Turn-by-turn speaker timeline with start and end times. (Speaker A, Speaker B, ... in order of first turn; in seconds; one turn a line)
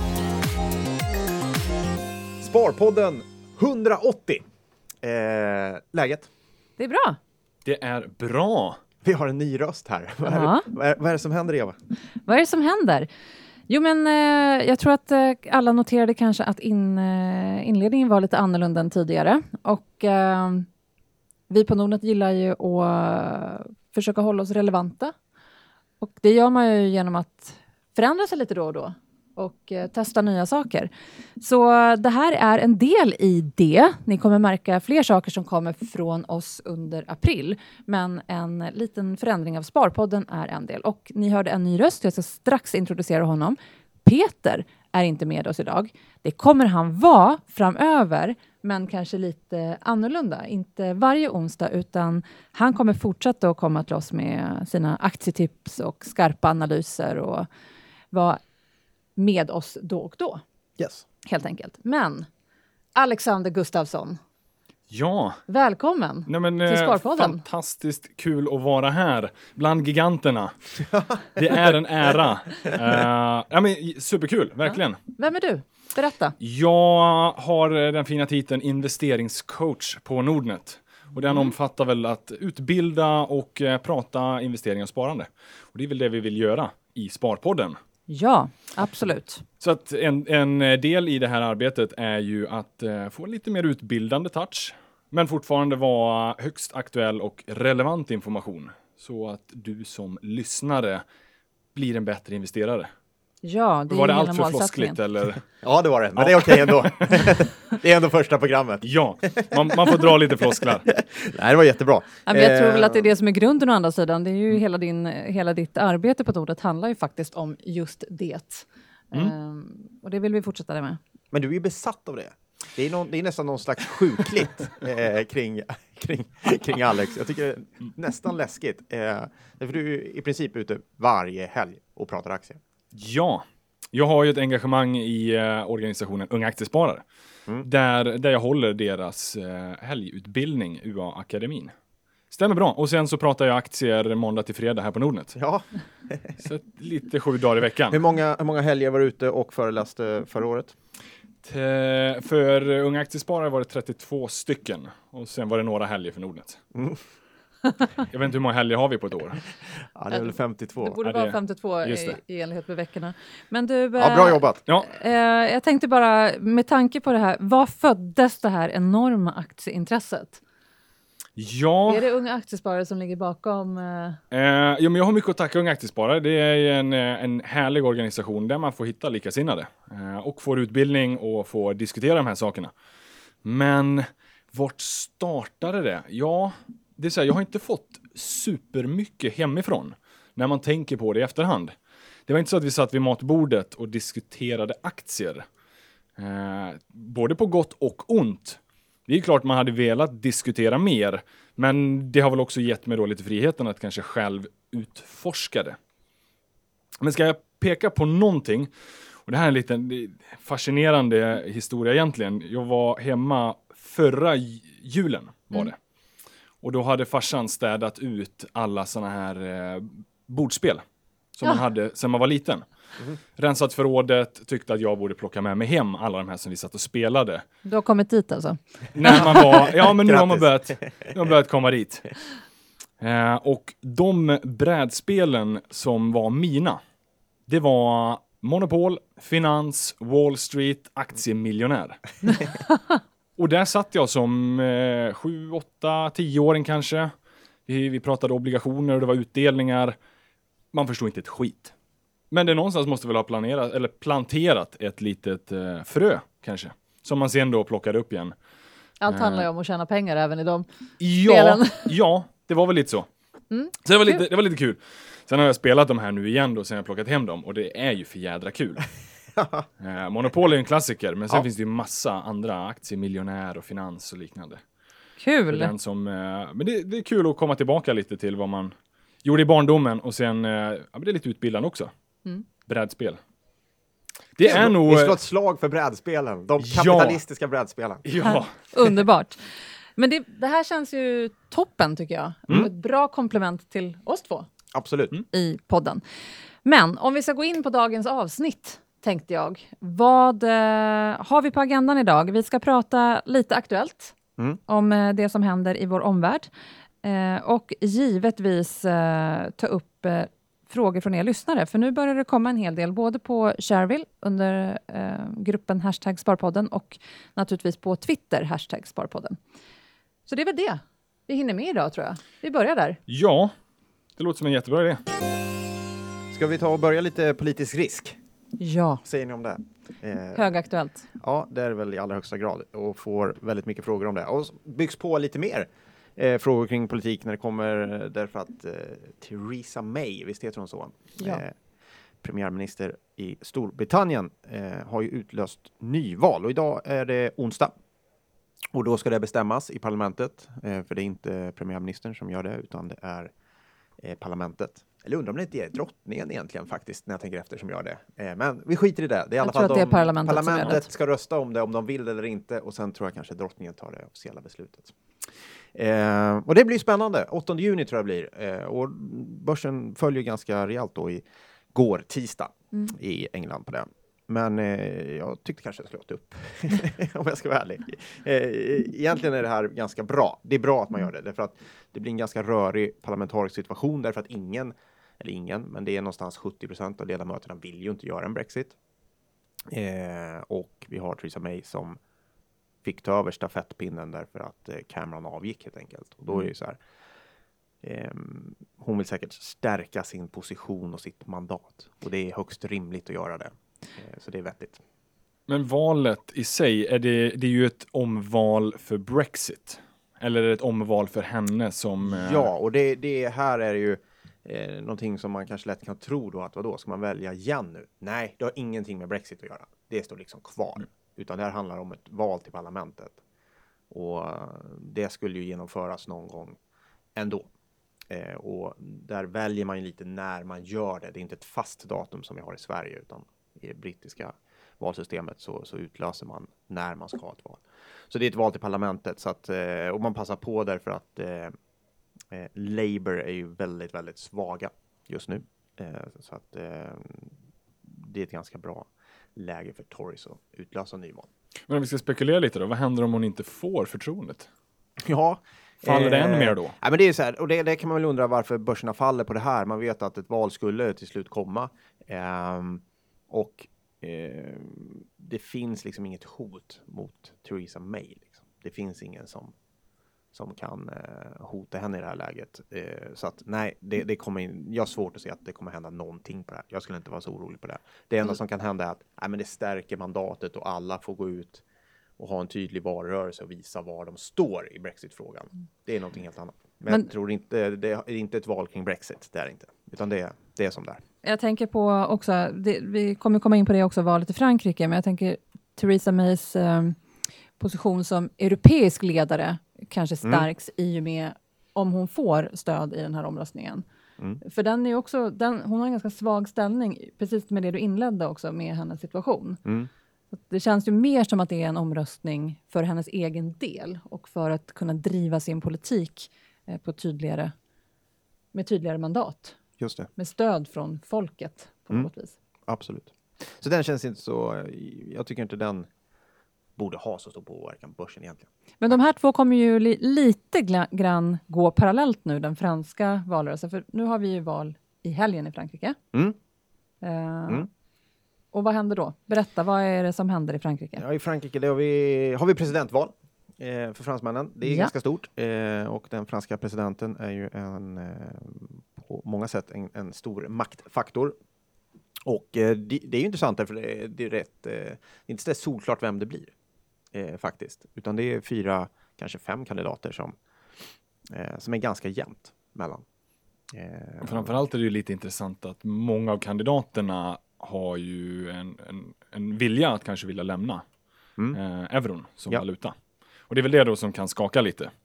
Speaker A: 2.4-4.4
Speaker A: 5.0-6.3
Speaker B: 6.8-7.2
Speaker C: 7.6-8.8
Speaker A: 9.0-11.8
Speaker B: 10.2-10.7
Speaker B: 12.2-13.1
Speaker B: 13.7-20.7
Speaker B: 21.5-25.1
Speaker B: 26.0-57.5
Speaker B: 58.1-58.4
Speaker B: 59.1-60.4
Speaker A: 60.8-61.0
Speaker B: 61.2-62.3
Speaker B: 62.9-64.2
Speaker C: 64.9-65.4
Speaker B: 65.5-67.4
Speaker C: 66.3-70.7
Speaker A: 70.9-71.6
Speaker C: 71.3-75.0
Speaker B: 74.7-76.3
Speaker C: 76.4-87.8
Speaker B: 88.1-89.4
Speaker C: 89.6-101.0
Speaker C: 101.7-102.9
Speaker B: 103.4-105.0
Speaker C: 103.9-105.4
Speaker A: 105.6-113.1
Speaker C: 106.2-107.3
Speaker C: 108.8-110.9
Speaker B: 112.2-121.0
Speaker A: 121.3-132.6
Speaker C: 132.9-137.0
Speaker C: 137.6-141.7
Speaker C: 142.3-145.3
Speaker A: 145.3-146.4
Speaker C: 146.4-148.0
Speaker A: 147.9-150.8
Speaker C: 151.4-156.6
Speaker C: 158.1-159.4
Speaker A: 159.9-161.0
Speaker B: 160.1-170.4
Speaker C: 161.0-162.2
Speaker A: 164.0-164.6
Speaker C: 171.3-172.1
Speaker B: 171.9-174.2
Speaker C: 174.3-182.7
Speaker C: 183.4-191.7
Speaker C: 192.3-195.4
Speaker C: 196.2-205.8
Speaker C: 207.0-208.7
Speaker C: 209.2-215.8
Speaker C: 216.6-220.8
Speaker C: 221.3-222.7
Speaker C: 223.4-227.4
Speaker B: 227.6-229.3
Speaker C: 228.9-232.1
Speaker A: 229.1-231.1
Speaker C: 233.0-236.8
Speaker C: 237.5-242.4
Speaker C: 243.4-247.1
Speaker C: 247.7-250.0
Speaker C: 250.7-251.7
Speaker C: 252.3-258.4
Speaker B: 259.0-261.9
Speaker C: 259.1-259.4
Speaker C: 261.0-263.1
Speaker B: 263.5-264.2
Speaker C: 263.8-268.9
Speaker A: 269.4-269.6
Speaker C: 269.8-274.6
Speaker B: 275.2-275.7
Speaker C: 275.5-281.9
Speaker C: 282.6-283.2
Speaker C: 284.4-285.1
Speaker A: 284.4-288.4
Speaker C: 286.6-287.2
Speaker C: 288.0-288.9
Speaker B: 288.7-294.5
Speaker A: 294.7-295.1
Speaker B: 295.3-296.0
Speaker B: 296.6-304.1
Speaker B: 304.7-306.5
Speaker B: 307.0-319.4
Speaker B: 320.3-323.0
Speaker C: 323.1-323.5
Speaker C: 324.2-325.0
Speaker A: 326.3-328.2
Speaker B: 328.6-329.0
Speaker A: 329.0-330.5
Speaker B: 330.3-331.1
Speaker A: 331.2-341.5
Speaker A: 342.2-347.7
Speaker A: 348.7-353.3
Speaker A: 354.0-364.9
Speaker B: 359.4-360.9
Speaker A: 365.7-388.8
Speaker A: 389.7-392.0
Speaker A: 392.8-396.8
Speaker A: 397.8-404.8
Speaker C: 405.5-412.5
Speaker A: 412.0-423.2
Speaker A: 423.9-426.6
Speaker A: 427.1-427.5
Speaker A: 428.1-441.5
Speaker A: 442.3-451.3
Speaker C: 451.7-454.5
Speaker A: 455.0-469.5
Speaker C: 455.8-456.7
Speaker A: 470.3-481.6
Speaker A: 482.2-491.0
Speaker B: 491.2-497.0
Speaker B: 497.6-503.8
Speaker B: 504.4-509.6
Speaker A: 509.6-509.9
Speaker B: 510.3-517.5
Speaker B: 518.5-519.6
Speaker A: 519.8-520.1
Speaker B: 520.1-522.3
Speaker A: 522.7-525.9
Speaker A: 526.8-528.9
Speaker B: 528.8-536.0
Speaker B: 537.0-537.7
Speaker B: 538.5-541.0
Speaker A: 541.0-551.4
Speaker B: 544.6-544.9
Speaker A: 552.2-556.5
Speaker A: 557.1-560.4
Speaker A: 561.3-563.0
Speaker A: 563.7-564.5
Speaker C: 564.2-570.8
Speaker C: 571.5-573.0
Speaker C: 573.5-574.9